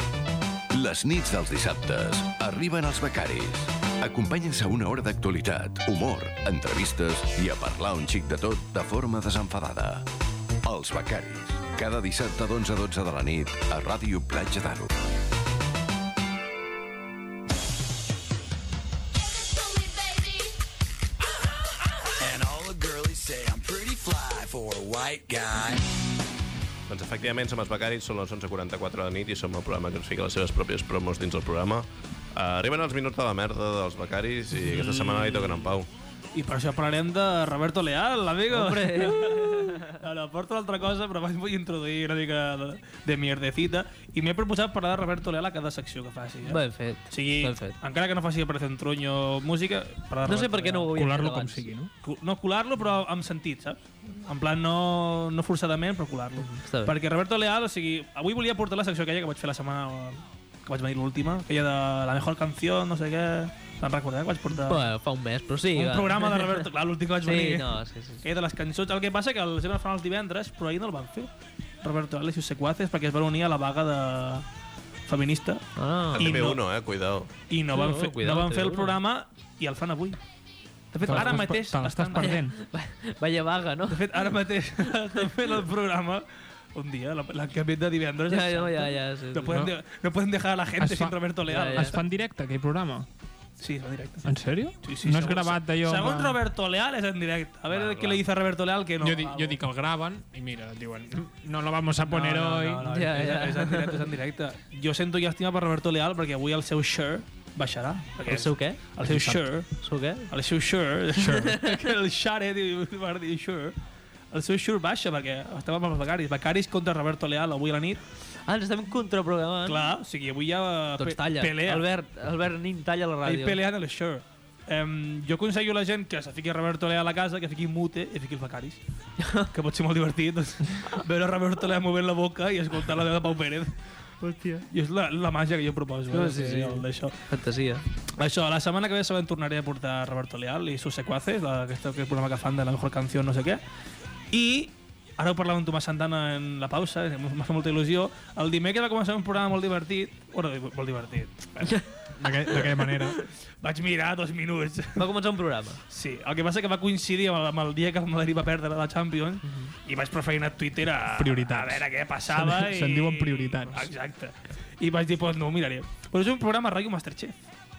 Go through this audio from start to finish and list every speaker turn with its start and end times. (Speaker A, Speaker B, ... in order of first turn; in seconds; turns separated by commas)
Speaker A: 0.7-10.1, Speaker A: 10.6-14.9, Speaker B: 22.2-26.0, Speaker C: 26.9-35.9, Speaker D: 34.6-35.7, Speaker D: 36.3-50.9, Speaker E: 38.5-39.9, Speaker E: 46.5-47.8, Speaker E: 50.2-51.7, Speaker F: 50.9-51.9, Speaker D: 52.0-64.9, Speaker E: 56.4-56.9, Speaker E: 64.5-66.7, Speaker D: 65.7-71.3, Speaker E: 67.2-68.2, Speaker D: 71.8-74.5, Speaker D: 75.1-76.6, Speaker E: 75.8-76.4, Speaker C: 76.1-77.3, Speaker D: 77.5-80.2, Speaker E: 77.7-79.0, Speaker D: 80.9-82.4, Speaker F: 81.0-82.5, Speaker E: 81.1-81.5, Speaker E: 82.2-84.3, Speaker D: 83.9-92.1, Speaker E: 88.3-89.7, Speaker F: 90.8-93.1, Speaker E: 91.5-92.0, Speaker D: 93.6-99.6, Speaker F: 94.2-96.4, Speaker E: 97.7-98.2, Speaker F: 99.0-102.9, Speaker D: 102.0-109.7, Speaker E: 102.8-104.1, Speaker E: 108.2-108.8, Speaker F: 109.0-109.5, Speaker E: 109.8-110.3, Speaker D: 110.3-113.7, Speaker F: 111.1-111.6, Speaker D: 114.3-118.0, Speaker E: 118.5-119.9, Speaker D: 119.6-121.9, Speaker E: 121.0-123.6, Speaker D: 123.2-128.8, Speaker E: 129.2-129.5, Speaker D: 129.4-133.8, Speaker E: 134.2-134.7, Speaker D: 134.7-137.2, Speaker E: 136.1-137.8, Speaker D: 138.1-143.6, Speaker D: 144.3-151.9, Speaker F: 152.2-153.2, Speaker D: 152.5-155.1, Speaker E: 154.9-155.8, Speaker D: 155.9-167.3, Speaker E: 159.4-159.7, Speaker F: 161.2-163.9